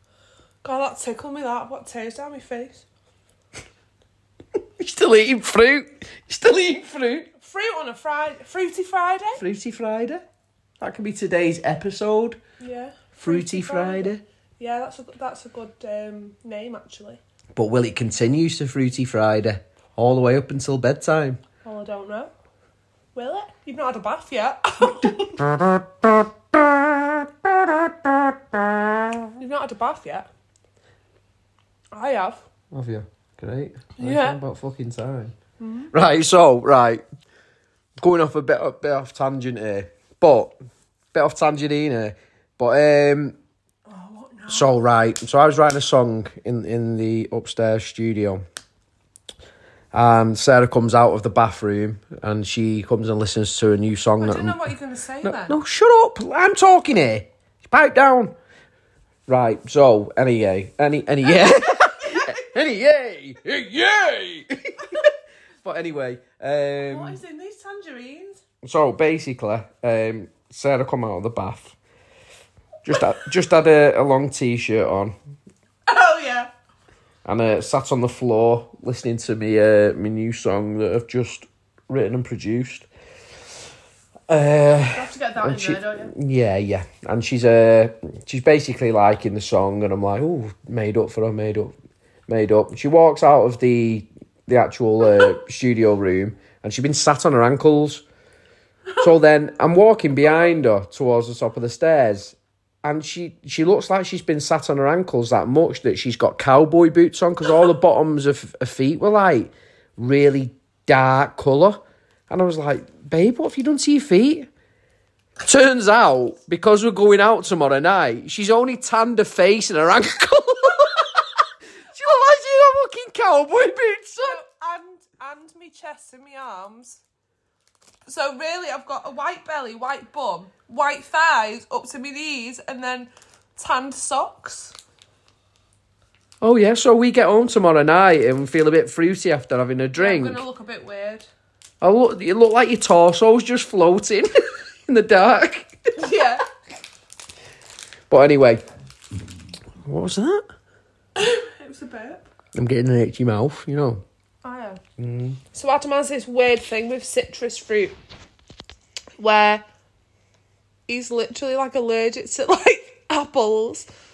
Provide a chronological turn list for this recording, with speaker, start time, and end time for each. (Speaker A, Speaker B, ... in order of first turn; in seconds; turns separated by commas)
Speaker A: 0.6-2.9, Speaker B: 4.8-7.3, Speaker A: 7.4-9.4, Speaker B: 9.4-10.2, Speaker B: 10.8-12.4, Speaker A: 12.6-17.2, Speaker B: 13.2-14.2, Speaker B: 17.6-21.4, Speaker A: 21.6-22.3, Speaker A: 23.1-25.4, Speaker B: 25.4-29.3, Speaker A: 29.4-30.3, Speaker A: 31.9-32.4, Speaker B: 32.7-35.4, Speaker A: 34.0-34.4, Speaker A: 35.6-35.9, Speaker B: 35.9-37.0, Speaker B: 38.0-40.5, Speaker B: 41.1-43.4, Speaker A: 43.9-44.7, Speaker B: 44.5-48.4, Speaker B: 49.9-54.6, Speaker A: 54.2-55.6, Speaker B: 55.2-58.3, Speaker B: 59.3-65.1, Speaker A: 61.4-62.4, Speaker B: 65.6-67.2, Speaker A: 66.9-68.4, Speaker B: 68.6-71.8, Speaker B: 72.8-75.2, Speaker A: 75.9-76.5, Speaker B: 77.2-82.9, Speaker B: 84.3-91.7, Speaker A: 84.9-86.1, Speaker B: 92.3-98.0, Speaker B: 99.0-114.5, Speaker B: 115.4-121.2, Speaker B: 121.9-124.4, Speaker A: 124.2-127.0, Speaker A: 128.1-134.8, Speaker B: 136.4-140.4, Speaker A: 139.9-141.3, Speaker B: 141.8-145.8, Speaker A: 146.0-146.4, Speaker B: 148.1-148.6, Speaker B: 149.8-150.5, Speaker A: 151.2-152.3, Speaker B: 152.6-154.0, Speaker A: 154.4-154.8, Speaker B: 155.0-155.4, Speaker A: 155.5-157.9, Speaker A: 159.2-159.6, Speaker A: 160.9-163.9